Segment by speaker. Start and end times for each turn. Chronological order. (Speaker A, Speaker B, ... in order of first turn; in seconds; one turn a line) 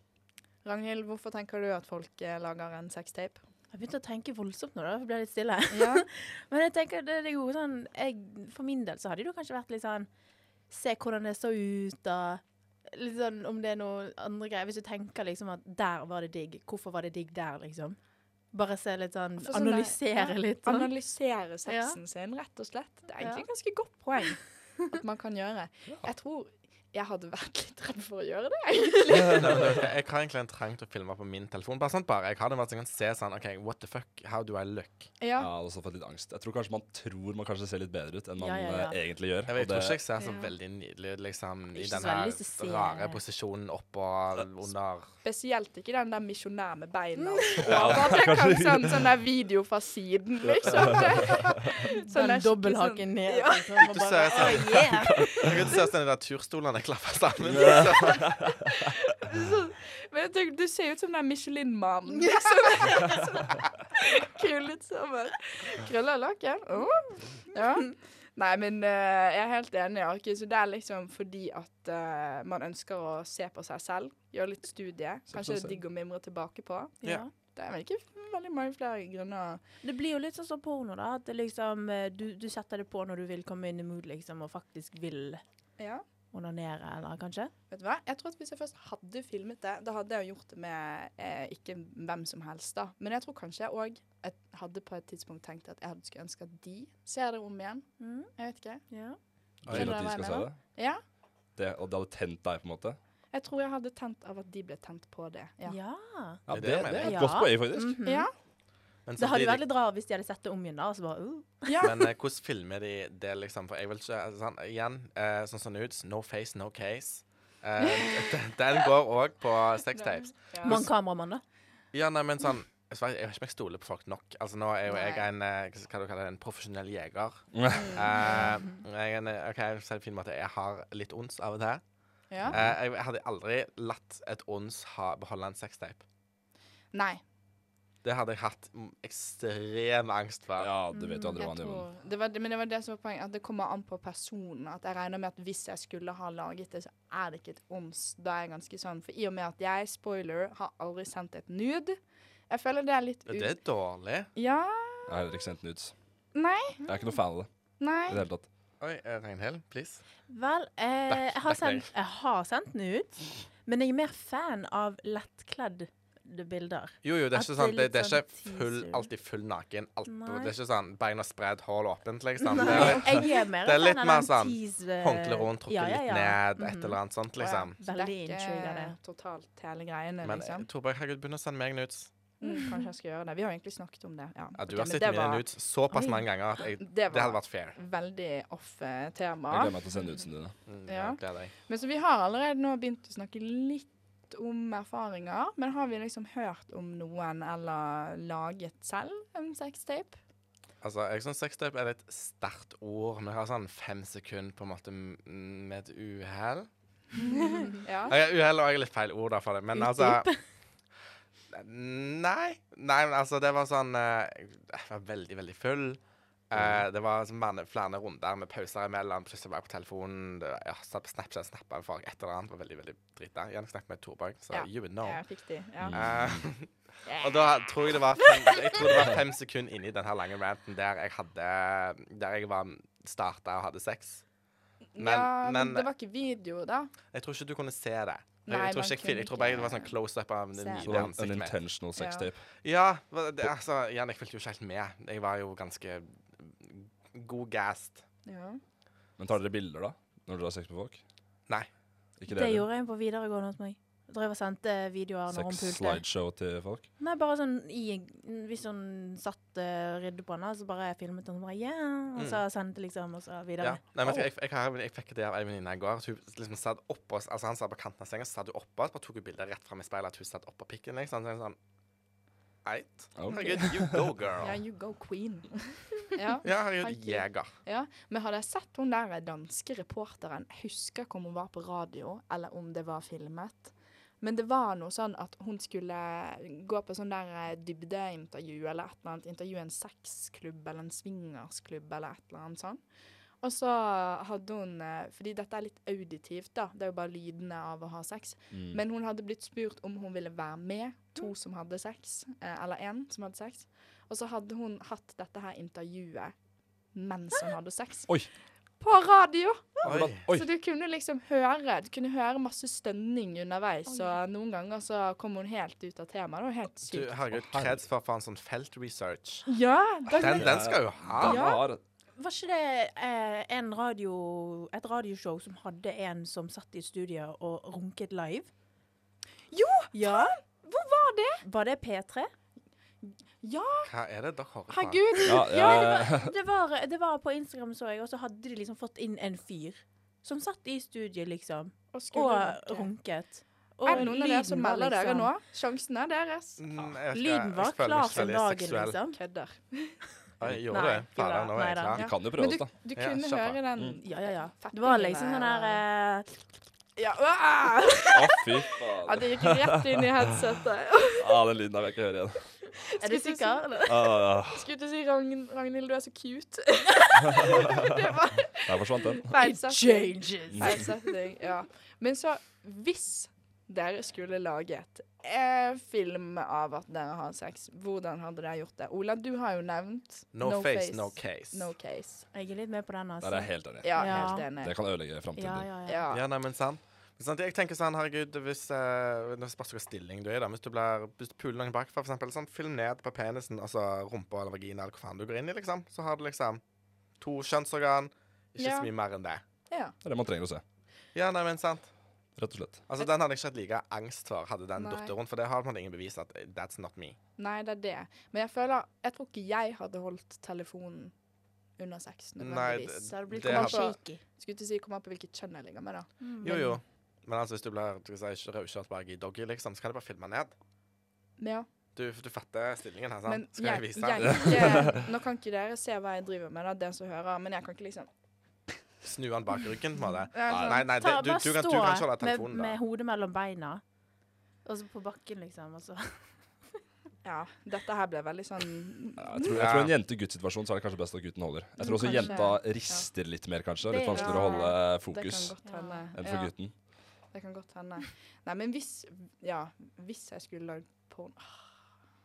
Speaker A: 0.6-3.4
Speaker B: 3.7-10.1
Speaker A: 5.7-6.1
Speaker B: 10.7-18.0
Speaker B: 18.5-20.9
Speaker A: 19.4-29.9
Speaker B: 21.7-22.0
Speaker B: 23.2-23.5
Speaker C: 29.3-35.1
Speaker A: 35.2-35.5
Speaker D: 35.4-40.0
Speaker B: 38.4-39.0
Speaker C: 39.5-45.1
Speaker A: 40.2-40.5
Speaker B: 41.7-43.2
Speaker A: 45.2-53.8
Speaker B: 47.2-47.7
Speaker D: 47.6-49.1
Speaker C: 47.7-48.0
Speaker D: 50.7-51.0
Speaker B: 52.1-55.3
Speaker C: 53.8-58.5
Speaker D: 54.7-55.5
Speaker D: 57.5-58.3
Speaker A: 58.4-79.6
Speaker B: 62.7-63.5
Speaker D: 75.3-75.8
Speaker B: 77.0-77.3
Speaker B: 79.8-85.4
Speaker A: 85.8-86.0
Speaker B: 86.3-87.5
Speaker A: 87.7-98.8
Speaker B: 98.0-100.5
Speaker D: 99.6-100.8
Speaker C: 99.6-100.0
Speaker A: 99.8-101.0
Speaker D: 101.5-103.0
Speaker A: 103.3-105.8
Speaker B: 105.7-108.4
Speaker D: 106.5-108.0
Speaker C: 106.5-107.5
Speaker A: 108.0-108.3
Speaker C: 109.0-109.6
Speaker B: 109.2-111.9
Speaker A: 111.7-112.0
Speaker C: 111.8-120.5
Speaker A: 118.0-118.4
Speaker A: 120.0-120.8
Speaker B: 120.6-121.4
Speaker C: 121.9-136.0
Speaker A: 124.9-125.3
Speaker D: 127.5-127.9
Speaker A: 127.7-128.6
Speaker A: 132.3-132.6
Speaker D: 132.4-132.8
Speaker A: 136.9-137.2
Speaker C: 138.0-140.7
Speaker D: 140.6-141.9
Speaker B: 140.9-141.4
Speaker A: 141.4-153.6
Speaker C: 153.3-154.3
Speaker A: 154.3-155.4
Speaker D: 155.1-155.9
Speaker A: 156.3-156.8
Speaker B: 156.8-157.2
Speaker D: 156.8-158.5
Speaker A: 157.8-158.2
Speaker C: 158.8-160.0
Speaker B: 160.3-169.1
Speaker C: 161.1-161.9
Speaker C: 167.0-177.8
Speaker B: 170.1-170.5
Speaker B: 172.5-177.0
Speaker A: 172.6-173.0
Speaker A: 177.4-180.7
Speaker B: 177.8-178.9
Speaker C: 180.2-182.2
Speaker A: 182.4-185.5
Speaker B: 182.5-182.7
Speaker C: 184.6-187.8
Speaker B: 185.9-186.5
Speaker A: 186.8-189.8
Speaker D: 189.5-190.6
Speaker C: 190.7-191.5
Speaker A: 190.9-200.2
Speaker C: 200.8-206.7
Speaker A: 207.3-208.2
Speaker C: 208.1-210.6
Speaker B: 209.8-210.4
Speaker C: 211.5-234.3
Speaker D: 216.6-216.8
Speaker A: 224.5-226.2
Speaker D: 225.8-226.5
Speaker A: 227.0-228.2
Speaker A: 234.9-236.9
Speaker C: 235.0-235.9
Speaker C: 237.1-241.6
Speaker A: 238.5-240.0
Speaker A: 240.6-241.1
Speaker D: 240.8-242.5
Speaker A: 242.0-242.3
Speaker C: 242.6-248.1
Speaker A: 248.2-248.6
Speaker D: 249.2-251.0
Speaker D: 252.2-252.7
Speaker B: 252.3-256.2
Speaker D: 255.3-256.9
Speaker B: 257.0-263.8
Speaker C: 262.2-262.4
Speaker C: 263.6-271.6
Speaker D: 264.0-264.3
Speaker C: 272.6-274.6
Speaker D: 273.2-274.1
Speaker A: 273.3-273.6
Speaker A: 274.4-292.8
Speaker C: 276.4-277.5
Speaker A: 293.4-306.4
Speaker D: 298.5-298.8
Speaker A: 306.9-317.3
Speaker C: 309.8-310.2
Speaker D: 309.8-310.5
Speaker B: 313.9-314.2
Speaker C: 316.9-319.5
Speaker D: 317.3-317.8
Speaker A: 319.5-320.6
Speaker C: 320.2-321.4
Speaker D: 320.4-321.8
Speaker A: 321.2-321.7
Speaker B: 322.2-328.5
Speaker A: 329.5-331.4
Speaker B: 329.9-330.6
Speaker B: 331.4-332.3
Speaker A: 333.0-333.9
Speaker C: 333.9-335.3
Speaker A: 334.7-336.0
Speaker D: 335.3-336.3
Speaker B: 335.3-345.3
Speaker A: 341.9-343.3
Speaker A: 343.9-346.6
Speaker C: 346.6-349.0
Speaker B: 347.1-349.2
Speaker A: 349.1-350.0
Speaker C: 350.4-352.1
Speaker B: 350.7-352.0
Speaker A: 351.9-355.8
Speaker D: 352.0-352.8
Speaker C: 352.9-353.6
Speaker D: 353.8-354.0
Speaker B: 354.0-356.3
Speaker A: 357.0-361.4
Speaker D: 358.1-359.8
Speaker D: 361.2-362.6
Speaker A: 363.0-382.3
Speaker B: 363.0-364.1
Speaker D: 363.9-364.7
Speaker D: 368.7-369.3
Speaker B: 369.4-371.1
Speaker C: 380.3-381.7
Speaker B: 382.3-386.0
Speaker D: 383.2-385.7
Speaker A: 383.8-384.8
Speaker A: 385.9-386.3
Speaker C: 386.1-396.6
Speaker C: 397.1-399.4
Speaker A: 398.6-398.9
Speaker A: 399.4-399.9
Speaker D: 400.0-400.6
Speaker C: 401.1-402.0
Speaker D: 402.3-402.8
Speaker C: 402.9-407.2
Speaker A: 404.8-405.1
Speaker A: 407.4-411.2
Speaker A: 411.8-416.8
Speaker C: 412.4-413.9
Speaker B: 413.0-414.2
Speaker B: 416.2-416.8
Speaker C: 416.4-420.6
Speaker A: 421.4-421.7
Speaker C: 421.9-424.8
Speaker A: 423.3-428.1
Speaker D: 424.3-424.7
Speaker C: 429.0-432.8
Speaker A: 430.3-430.9
Speaker B: 430.5-433.8
Speaker D: 430.5-430.8
Speaker B: 434.6-436.8
Speaker A: 437.2-439.6
Speaker D: 439.2-445.6
Speaker C: 439.6-439.9
Speaker B: 441.8-442.6
Speaker A: 441.9-443.1
Speaker B: 443.8-444.9
Speaker A: 444.1-451.8
Speaker B: 445.6-446.1
Speaker D: 446.1-446.8